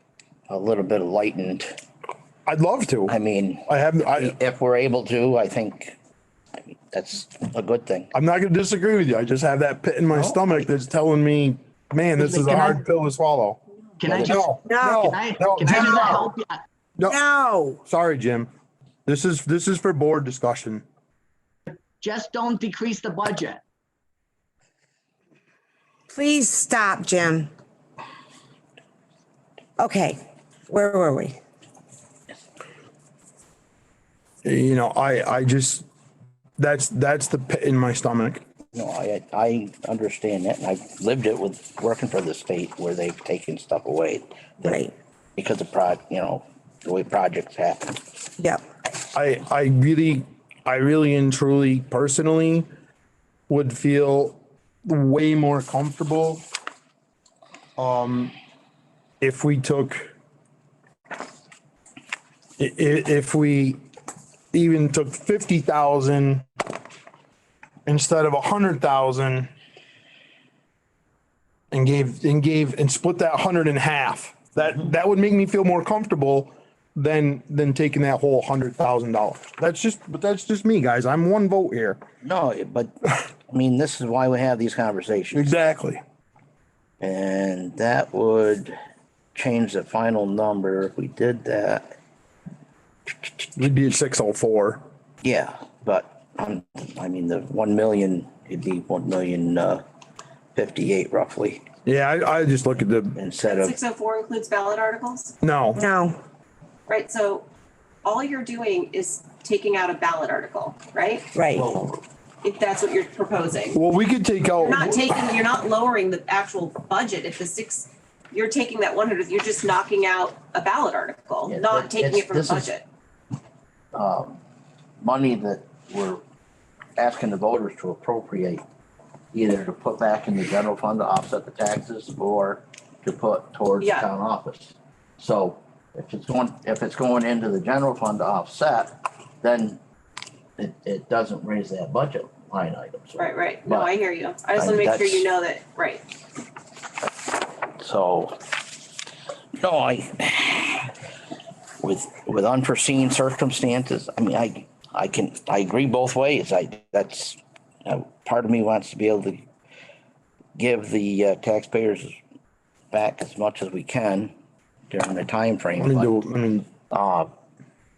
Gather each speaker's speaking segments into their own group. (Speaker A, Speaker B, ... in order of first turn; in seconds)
Speaker A: 0.5-1.8, 3.1-6.0, 6.9-8.1, 14.1-14.4, 38.7-44.8, 45.4-48.0, 82.2-82.9, 83.5-85.4, 87.0-88.8, 89.3-92.0, 95.2-99.8, 100.5-101.6, 103.2-103.8, 111.5-112.0, 121.5-122.7, 123.9-124.4, 125.0-126.2, 127.0-128.6, 129.3-139.8, 140.6-143.9, 144.6-145.3, 147.8-148.4, 149.6-150.9, 151.8-159.5, 160.6-162.2, 162.9-164.3, 164.9-166.2, 166.9-167.3
Speaker B: 2.5-3.2, 3.7-4.4, 8.1-13.6, 14.1-16.3, 17.9-18.5, 19.1-20.9, 34.4-35.9, 36.6-38.4, 49.1-52.7, 53.5-56.4, 57.8-58.3, 59.2-60.1, 62.6-63.8, 64.5-66.5, 67.9-69.5, 71.7-82.0, 85.3-86.0, 93.6-94.8, 101.8-103.2, 105.4-105.8, 113.7-115.1, 165.8-166.7
Speaker C: 12.2-12.8, 14.0-16.6, 22.0-23.6
Speaker D: 14.6-15.1, 17.0-17.8, 26.1-27.5, 29.8-31.4, 44.6-44.9, 105.8-106.2, 111.3-111.7
Speaker E: 103.5-105.3, 106.9-107.5, 108.0-111.3, 112.4-113.8, 114.6-122.8, 133.8-134.1, 143.2-146.0